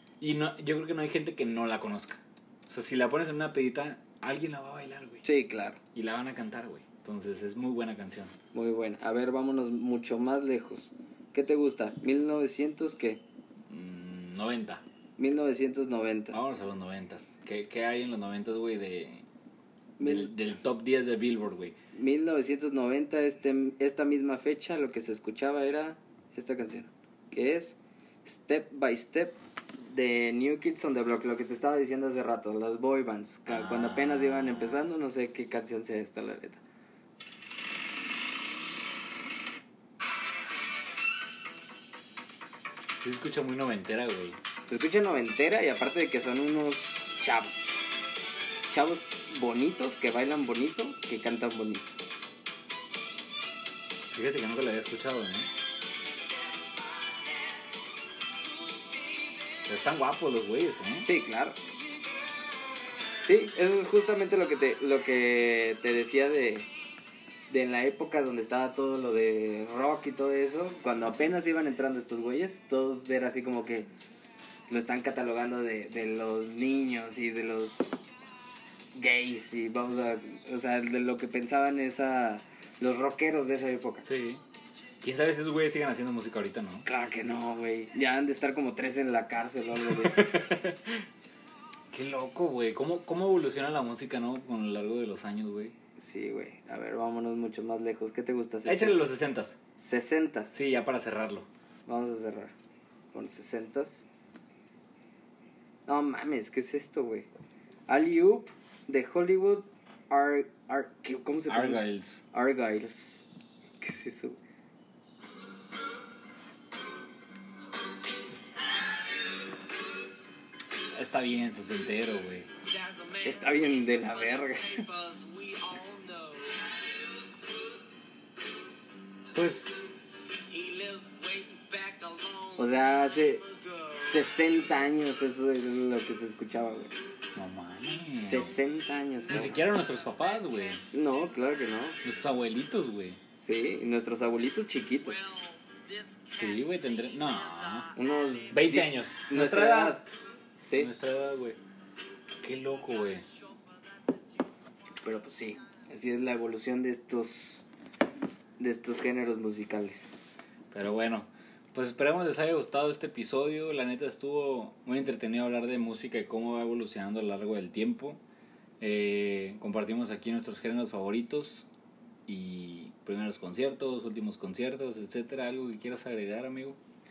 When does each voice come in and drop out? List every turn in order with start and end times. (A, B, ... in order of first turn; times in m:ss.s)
0:00.2-0:05.2 A
0:05.2-0:05.8 B
0:05.9-0:08.3 A
0:08.5-0:13.2 B
0:13.7-0:14.8 A
0:15.2-0:16.4 B
0:16.3-0:19.2 A
0:20.0-0:20.3 B
0:20.0-0:21.8 A
0:21.9-0:36.6 B
0:33.5-0:34.8 A
0:43.0-0:44.4 A
0:44.6-0:47.5 B
0:48.7-0:51.9 B
0:54.1-0:55.5 A
0:59.6-1:01.1 A
1:01.0-1:01.6 B
1:03.2-1:06.7 B
1:07.5-1:13.9 B
1:14.7-1:18.0 B
1:18.9-1:24.1 B
1:24.0-1:24.4 A
1:25.0-1:26.9 A
1:26.8-1:30.3 B
1:29.7-1:31.0 A
1:31.9-1:35.7 A
1:36.0-1:39.0 B
1:38.6-1:39.6 A
1:39.8-1:40.6 B
1:40.5-1:41.5 A
1:41.9-1:42.5 B
1:43.1-1:44.0 B
1:45.9-1:47.3 B
1:47.9-1:53.2 B
1:51.5-1:52.2 A
1:53.8-1:54.4 B
2:00.9-2:02.5 A
2:03.2-2:04.9 B
2:09.3-2:09.8 A
2:12.6-2:16.9 B
2:17.3-2:18.6 A
2:18.1-2:19.6 B
2:19.3-2:20.9 A
2:20.9-2:22.0 B
2:22.0-2:23.2 A
2:23.4-2:25.4 B
2:26.2-2:27.9 A
2:27.9-2:30.0 B
2:28.5-2:30.1 A
2:30.7-2:31.6 A
2:32.4-2:33.3 A
2:35.0-2:37.6 B
2:38.6-2:40.2 B
2:40.7-2:48.2 A
2:48.8-2:51.7 A
2:52.3-2:56.8 A